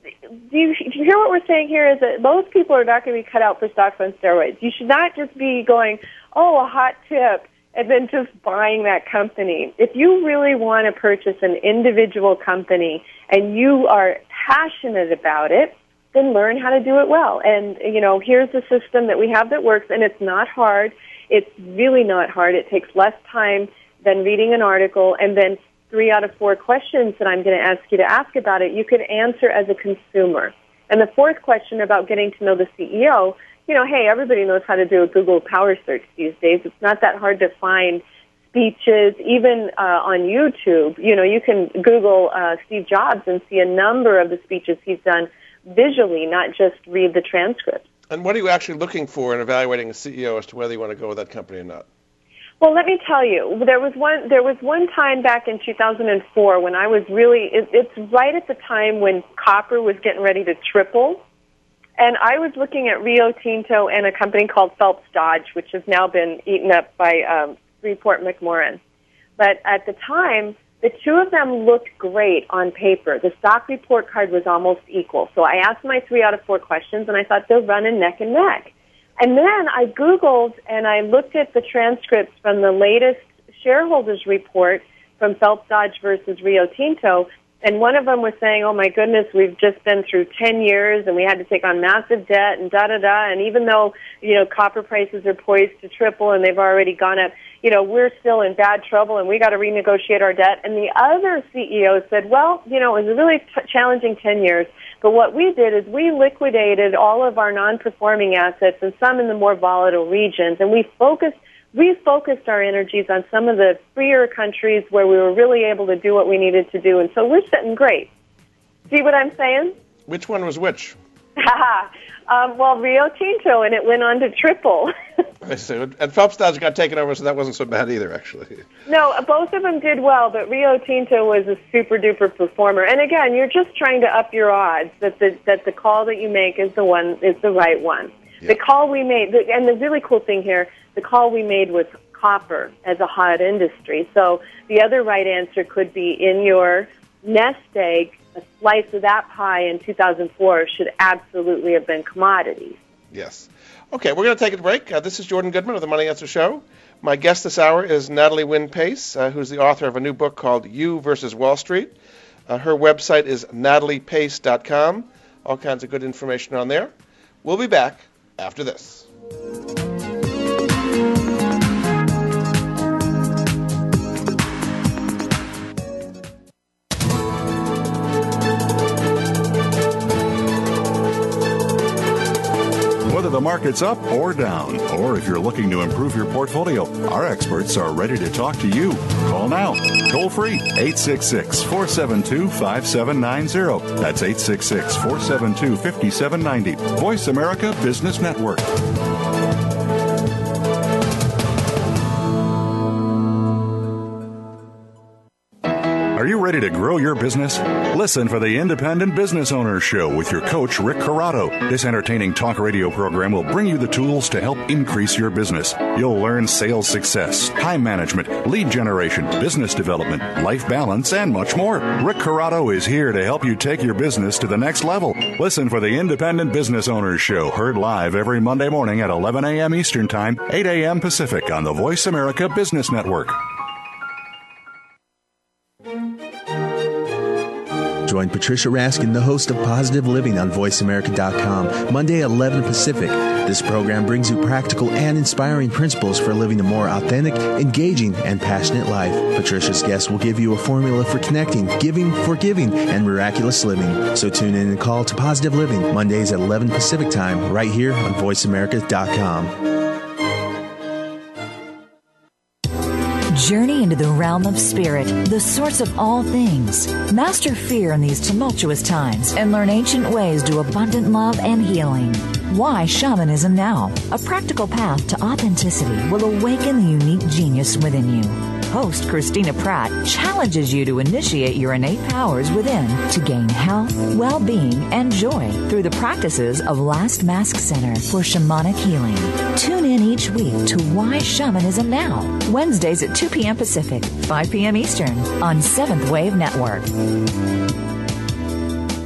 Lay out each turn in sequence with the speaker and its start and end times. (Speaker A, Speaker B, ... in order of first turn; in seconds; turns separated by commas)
Speaker A: 0.5-47.8, Speaker B: 48.1-51.9, Speaker A: 52.6-61.2, Speaker A: 62.0-68.8, Speaker A: 69.4-118.1, Speaker A: 118.9-119.8, Speaker B: 120.1-121.0, Speaker A: 121.4-124.9, Speaker B: 125.4-128.6, Speaker A: 128.9-152.8, Speaker B: 153.1-161.9, Speaker B: 162.5-166.9, Speaker B: 167.4-169.1, Speaker C: 183.1-198.8, Speaker C: 206.1-233.4, Speaker D: 238.1-259.6, Speaker E: 263.3-297.0